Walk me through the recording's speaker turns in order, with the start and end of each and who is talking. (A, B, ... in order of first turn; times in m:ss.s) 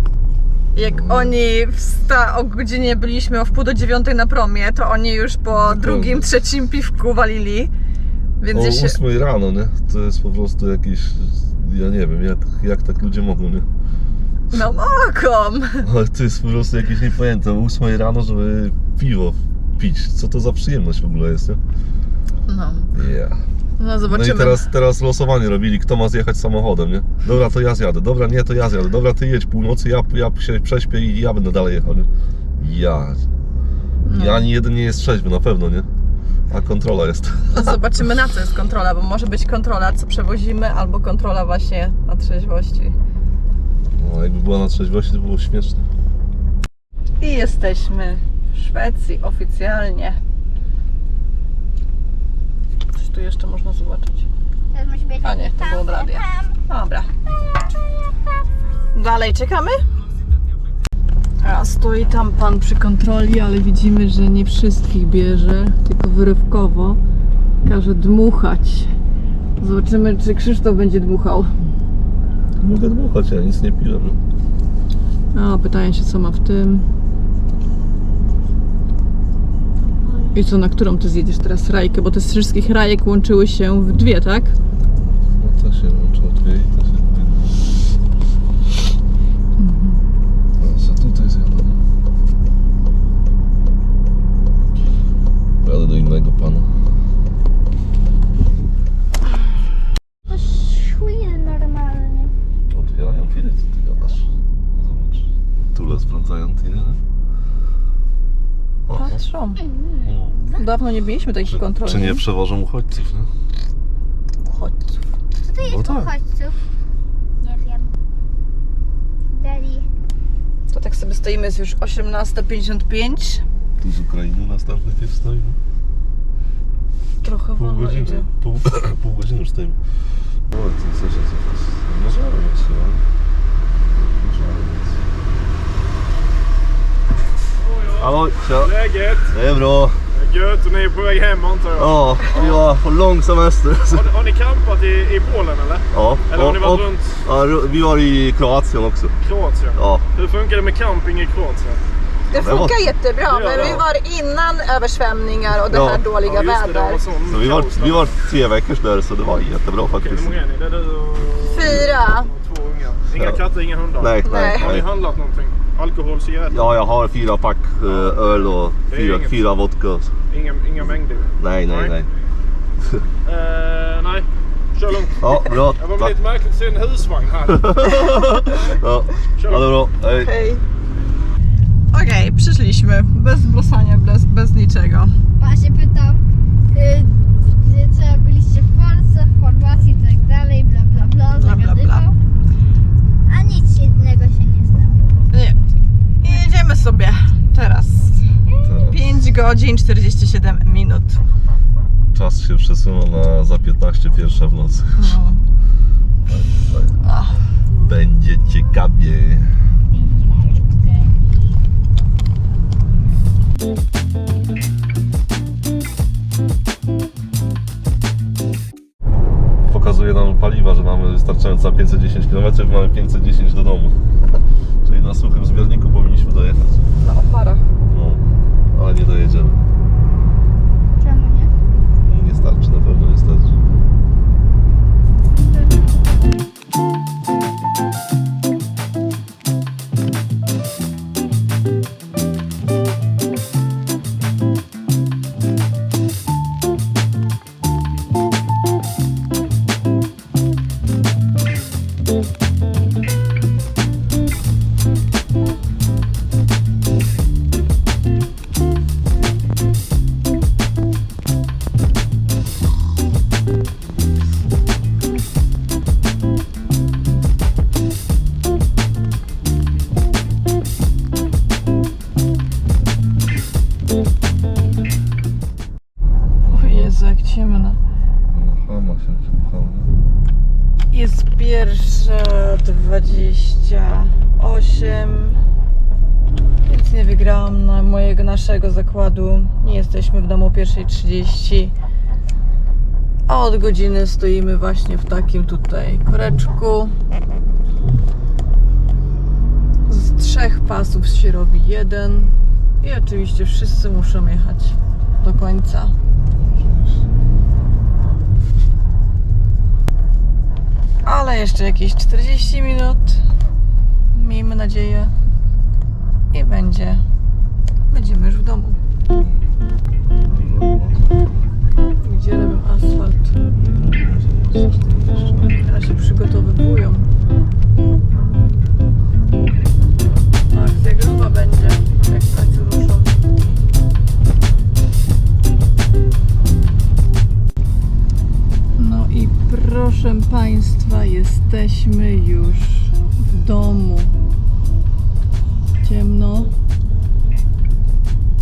0:00.8-0:07.7 A
0:00.8-0:01.4 B
0:05.5-0:06.3 B
0:08.4-0:09.0 A
0:08.5-0:13.7 B
0:14.5-0:15.9 A
0:15.8-0:21.6 B
0:22.5-0:22.9 A
0:22.9-0:23.4 B
0:23.8-0:24.7 A
0:24.1-0:33.3 B
0:34.1-0:34.5 A
0:34.1-0:35.9 B
0:36.5-0:37.8 B
0:37.5-0:43.0 A
0:44.0-0:45.9 B
0:47.2-0:50.2 A
0:53.0-0:54.3 A
0:54.7-0:56.6 C
0:55.2-0:57.1 A
0:58.9-0:59.8 A
1:01.4-1:07.0 A
1:07.6-1:08.9 A
1:09.6-1:11.5 A
1:12.6-1:14.2 B
1:15.3-1:16.9 A
1:20.3-1:24.5 A
1:25.0-1:27.6 B
1:29.6-1:30.0 A
1:30.6-1:31.8 B
1:35.6-1:36.8 B
1:40.3-1:42.3 C
1:42.7-1:47.0 B
1:48.9-1:49.2 B
1:48.9-1:49.6 A
1:49.6-1:50.6 C
1:50.0-1:50.5 B
1:50.5-1:52.2 A
1:51.5-1:53.3 B
1:54.4-1:55.0 A
1:55.4-1:56.5 C
1:55.6-1:56.1 B
1:57.4-1:57.9 C
1:59.3-1:59.9 C
2:00.7-2:03.4 A
2:03.8-2:05.6 B
2:07.2-2:08.3 A
2:07.6-2:09.8 B
2:10.5-2:13.0 B
2:13.9-2:15.0 B
2:17.7-2:19.3 D
2:18.0-2:18.7 B
2:19.3-2:20.0 B
2:20.2-2:22.7 D
2:21.8-2:24.1 B
2:23.9-2:27.2 D
2:25.9-2:29.1 B
2:29.2-2:31.8 D
2:29.8-2:30.0 B
2:32.3-2:32.8 B
2:32.3-2:37.0 A
2:33.3-2:33.8 D
2:35.7-2:36.0 B
2:36.2-2:38.2 D
2:37.2-2:40.4 B
2:39.9-2:46.7 D
2:41.4-2:42.3 A
2:41.6-2:41.9 B
2:43.1-2:43.4 B
2:44.0-2:44.9 B
2:44.2-2:44.8 A
2:46.5-2:50.1 B
2:47.9-2:49.5 D
2:50.3-2:52.0 D
2:50.8-2:52.1 B
2:52.8-2:53.1 B
2:53.3-2:55.2 D
2:55.2-2:56.2 B
2:55.8-2:57.9 D
2:57.5-3:00.4 B
2:57.8-2:58.4 A
2:58.5-2:58.8 D
2:59.4-2:59.7 D
3:00.2-3:00.6 A
3:01.9-3:05.1 A
3:05.4-3:06.2 C
3:06.7-3:12.2 C
3:11.3-3:12.1 A
3:13.3-3:15.0 C
3:16.2-3:21.2 A
3:18.6-3:19.2 B
3:22.1-3:25.2 B
3:25.0-3:25.4 A
3:26.3-3:27.0 B
3:27.0-3:27.4 A
3:27.8-3:29.5 B
3:29.9-3:31.2 C
3:39.7-3:44.0 B
3:44.8-3:46.9 B
3:47.0-3:47.7 A
3:47.9-3:49.6 B
3:51.0-3:51.5 C
3:52.0-3:53.6 B
4:36.4-4:36.9 B
4:36.5-4:37.8 A
4:38.3-4:39.9 B
4:40.9-4:45.4 A
4:46.6-4:51.7 A
4:53.3-4:56.9 A
4:59.9-5:05.9 A
5:06.3-5:07.0 B
5:11.0-5:13.2 A
5:14.1-5:15.1 A
5:16.3-5:17.0 A
5:17.9-5:18.8 A
5:19.2-5:19.4 B
5:20.2-5:21.4 B
5:22.0-5:23.3 A
5:23.5-5:25.6 B
5:25.6-5:27.1 A
5:30.5-5:33.1 A
5:38.8-5:44.1 A
5:45.8-5:46.5 A